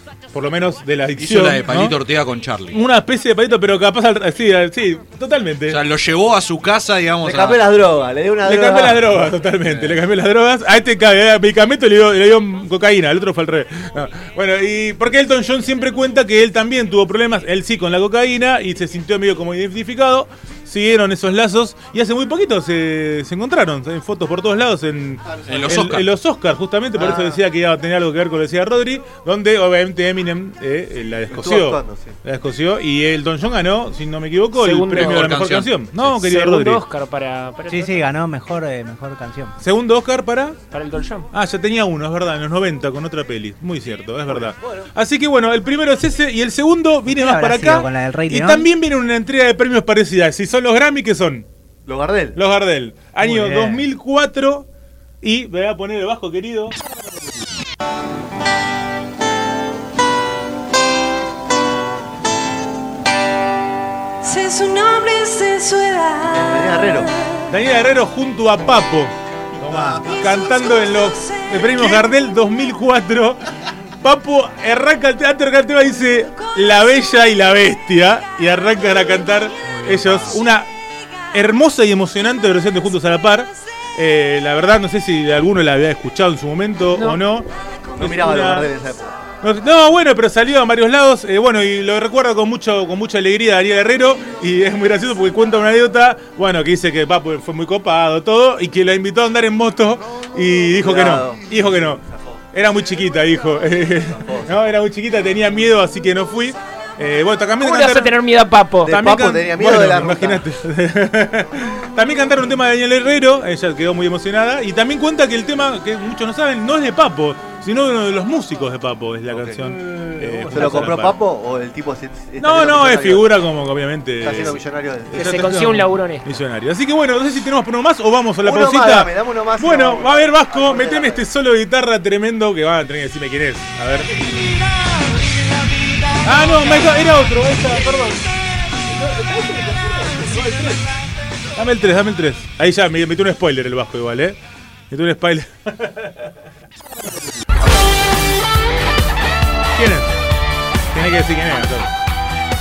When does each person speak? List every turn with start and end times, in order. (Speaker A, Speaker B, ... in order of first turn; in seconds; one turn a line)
Speaker A: 0.3-2.0
Speaker B: 1.2-2.8
Speaker A: 2.7-5.8
Speaker B: 5.7-7.7
Speaker C: 7.2-9.3
Speaker A: 8.4-36.8
Speaker B: 9.7-10.0
Speaker C: 25.3-25.8
Speaker B: 25.5-26.1
Speaker C: 26.9-27.4
Speaker C: 31.3-32.2
Speaker D: 34.5-35.3
Speaker B: 35.0-36.2
Speaker D: 36.2-38.0
Speaker E: 37.7-39.6
Speaker A: 39.6-40.6
Speaker D: 40.7-41.3
Speaker A: 41.3-51.5
Speaker C: 44.3-44.9
Speaker E: 47.1-48.7
Speaker C: 51.9-52.4
Speaker A: 52.4-54.7
Speaker E: 53.2-53.9
Speaker A: 55.2-56.8
Speaker F: 64.3-66.2
Speaker C: 66.3-67.1
Speaker A: 67.5-80.7
Speaker B: 69.6-70.2
Speaker E: 79.7-80.4
Speaker A: 81.3-88.7
Speaker D: 86.9-87.2
Speaker C: 88.0-89.2
Speaker A: 89.4-108.2
Speaker C: 100.8-102.4
Speaker C: 104.1-104.7
Speaker D: 107.6-109.0
Speaker C: 108.8-110.5
Speaker A: 108.9-121.2
Speaker C: 119.3-123.4
Speaker A: 122.4-134.3
Speaker C: 124.2-125.3
Speaker D: 125.1-126.3
Speaker C: 128.4-131.3
Speaker A: 136.2-140.9
Speaker A: 141.6-144.4
Speaker A: 144.9-146.3
Speaker A: 149.8-150.2
Speaker A: 150.9-151.9